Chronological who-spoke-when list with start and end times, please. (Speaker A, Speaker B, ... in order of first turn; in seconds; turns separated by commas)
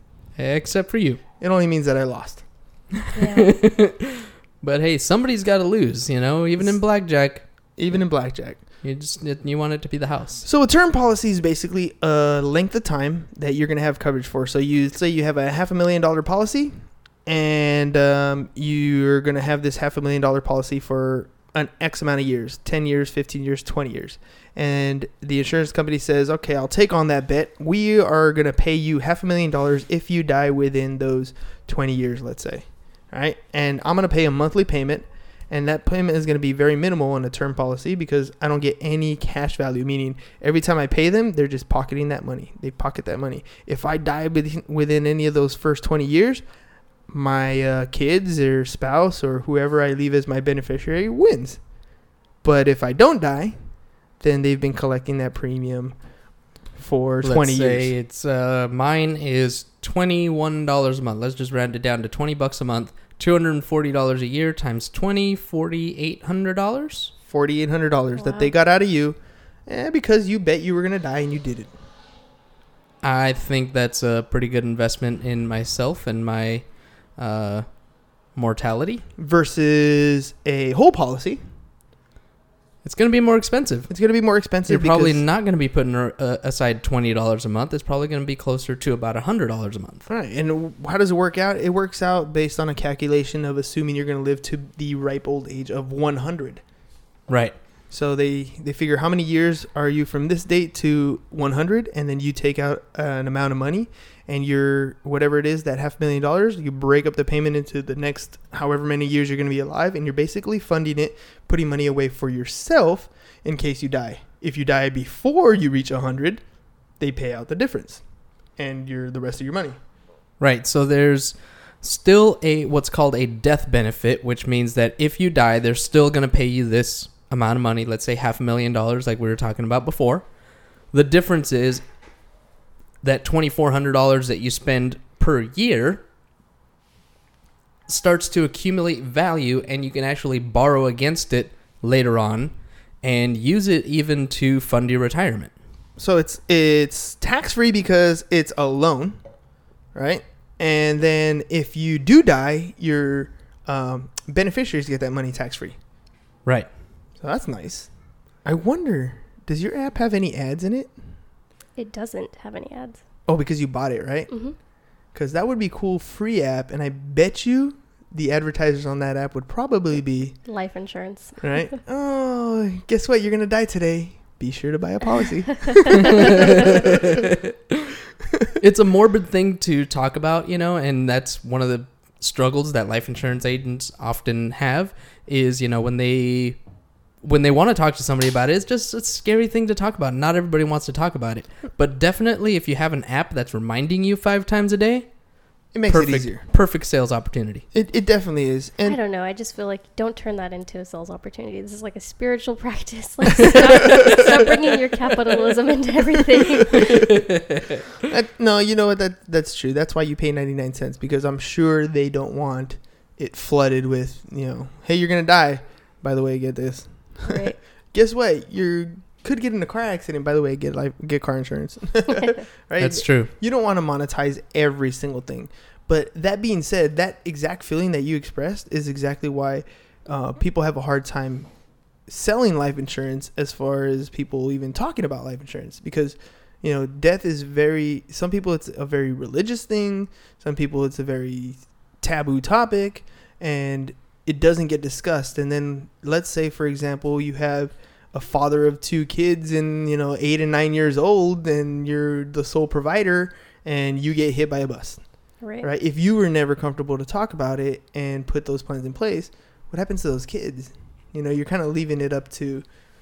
Speaker A: 0.4-1.2, Speaker B: 1.4-2.4, Speaker C: 3.1-3.5, Speaker A: 3.4-7.4, Speaker B: 7.8-8.6, Speaker A: 8.8-10.4, Speaker B: 10.4-46.4, Speaker B: 47.1-51.6, Speaker B: 52.4-53.6, Speaker B: 54.2-56.0, Speaker B: 56.8-57.9, Speaker A: 57.2-67.1, Speaker B: 67.2-71.7, Speaker C: 68.2-68.5, Speaker A: 73.0-77.8, Speaker A: 78.3-79.0, Speaker B: 79.2-81.4, Speaker A: 82.8-83.9, Speaker B: 83.9-85.2, Speaker A: 84.7-90.1, Speaker B: 90.1-96.6, Speaker A: 97.3-97.6, Speaker B: 97.9-116.4, Speaker B: 117.0-118.0, Speaker B: 118.6-119.8, Speaker A: 120.4-130.2, Speaker A: 130.9-131.8, Speaker A: 133.0-136.0, Speaker A: 137.9-145.5, Speaker B: 146.0-149.2, Speaker B: 149.9-155.8, Speaker B: 157.2-157.9, Speaker B: 158.4-161.0, Speaker C: 161.8-163.0, Speaker B: 163.3-164.3, Speaker C: 164.3-164.6, Speaker B: 165.1-170.4, Speaker C: 170.5-171.4, Speaker B: 171.4-177.2, Speaker C: 175.7-176.1, Speaker A: 176.1-177.9, Speaker A: 178.6-186.6, Speaker A: 187.2-195.1, Speaker B: 195.7-196.5, Speaker A: 195.9-197.7, Speaker B: 197.7-199.0, Speaker C: 198.8-207.1, Speaker B: 206.8-207.0, Speaker A: 206.9-207.7, Speaker B: 208.0-231.5, Speaker C: 217.2-217.6, Speaker A: 222.8-223.3, Speaker B: 232.1-255.0, Speaker C: 255.4-255.7, Speaker B: 255.6-262.7